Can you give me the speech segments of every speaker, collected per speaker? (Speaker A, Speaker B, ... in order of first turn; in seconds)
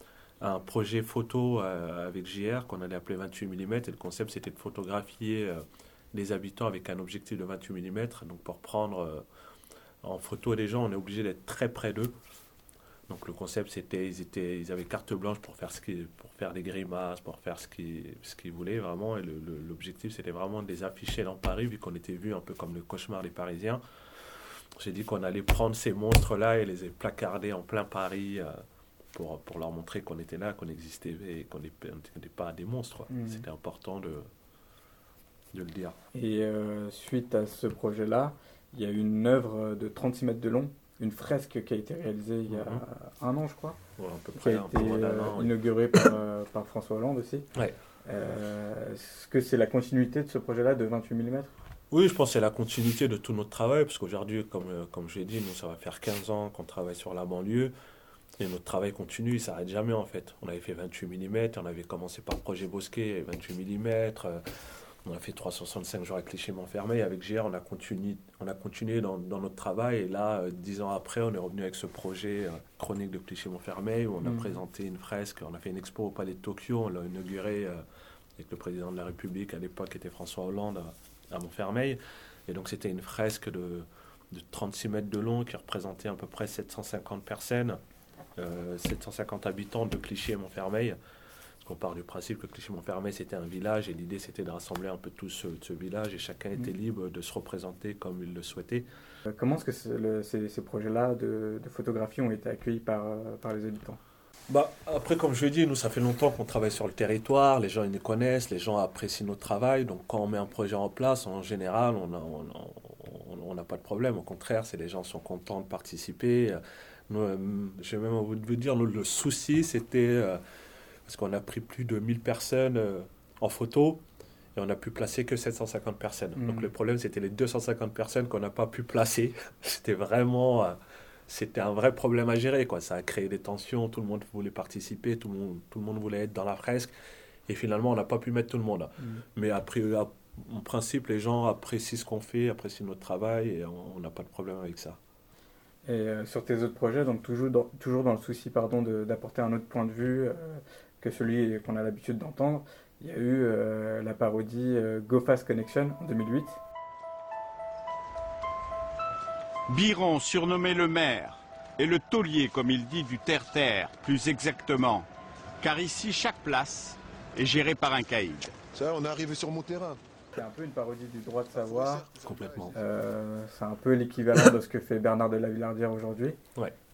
Speaker A: 0.4-9.3, 10.0-12.2, 13.1-23.8, 24.8-34.3, 35.5-36.0, 42.5-42.8, 44.0-46.1, 51.9-57.7, 58.4-77.8, 78.4-87.8, 88.4-91.0, 91.6-98.9, 104.5-120.4, 121.0-124.0, 124.5-136.9, 137.5-145.0, 172.2-172.8
Speaker B: 33.1-33.5, 36.1-43.8, 44.4-47.5, 48.1-51.5, 74.2-74.5, 99.3-104.0, 126.4-126.7, 145.8-156.6, 170.4-172.1, 172.7-176.4
Speaker C: 159.7-165.1, 165.6-168.6
Speaker D: 168.7-170.0, 171.6-172.7